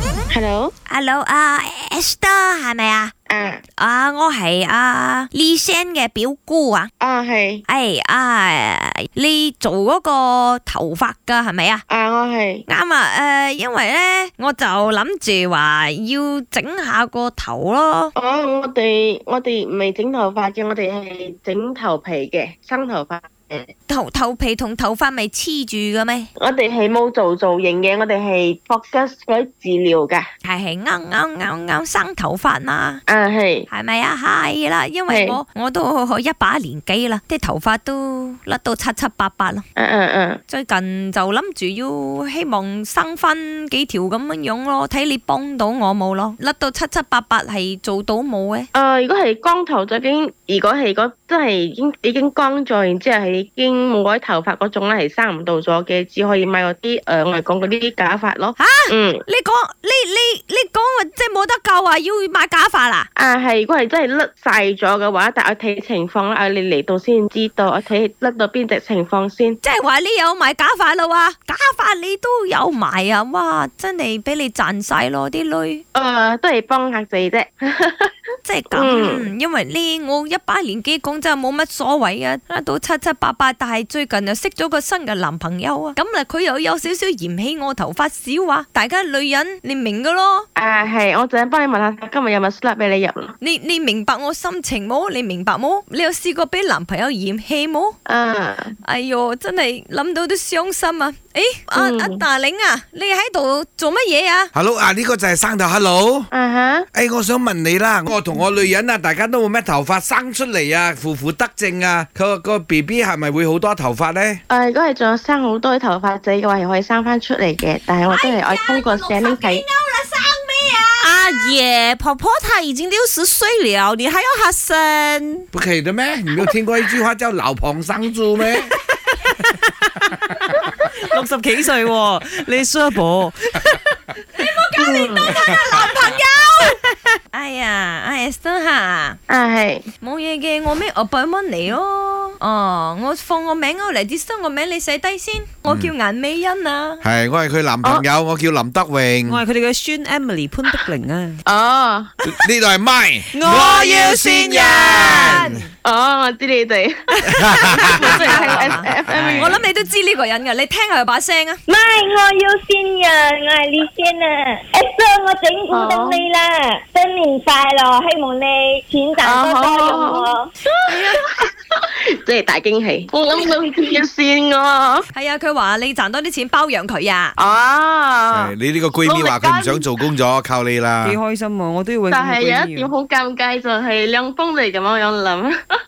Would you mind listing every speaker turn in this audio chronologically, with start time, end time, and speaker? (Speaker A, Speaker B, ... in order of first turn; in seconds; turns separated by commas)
Speaker A: 0.3-0.7, Speaker B: 0.9-3.1, Speaker A: 3.3-3.6, Speaker B: 3.8-6.9, Speaker A: 7.0-7.6, Speaker B: 7.7-11.8, Speaker A: 11.9-12.6, Speaker B: 12.7-18.1, Speaker A: 18.2-23.7, Speaker B: 23.9-26.3, Speaker A: 26.4-30.3, Speaker B: 30.4-33.0, Speaker A: 33.1-33.7, Speaker B: 33.7-39.6, Speaker A: 35.1-35.4, Speaker A: 39.8-40.4, Speaker B: 40.5-48.7, Speaker A: 48.7-59.2, Speaker B: 58.6-63.1, Speaker A: 63.2-69.6, Speaker B: 69.6-75.8, Speaker A: 75.9-78.1, Speaker B: 78.4-90.5, Speaker A: 78.7-79.2, Speaker A: 90.5-93.3, Speaker B: 93.4-98.0, Speaker A: 98.0-98.7, Speaker B: 98.8-104.5, Speaker A: 101.8-102.2, Speaker C: 104.5-106.3, Speaker A: 106.3-106.9, Speaker C: 106.9-114.4, Speaker A: 114.5-119.6, Speaker B: 118.1-121.5, Speaker D: 121.0-125.5, Speaker C: 125.5-128.7, Speaker D: 131.0-133.8, Speaker B: 134.3-136.8, Speaker A: 134.8-135.4, Speaker B: 137.3-139.2, Speaker A: 139.3-139.8, Speaker B: 140.0-147.0, Speaker C: 145.7-145.9, Speaker C: 147.0-149.4, Speaker D: 149.2-151.4, Speaker A: 151.5-152.1, Speaker C: 152.2-155.6, Speaker D: 153.3-155.4, Speaker B: 154.4-155.7, Speaker A: 155.8-159.5, Speaker C: 157.3-158.3, Speaker B: 157.4-161.6, Speaker D: 158.2-159.6, Speaker E: 161.7-170.4, Speaker A: 165.7-166.3, Speaker A: 169.2-170.3, Speaker B: 170.9-171.2, Speaker A: 170.9-171.2, Speaker A: 172.2-175.1, Speaker B: 175.1-177.4, Speaker A: 177.4-178.5, Speaker C: 178.3-181.2, Speaker A: 179.0-179.9, Speaker D: 181.0-182.9, Speaker A: 182.1-185.6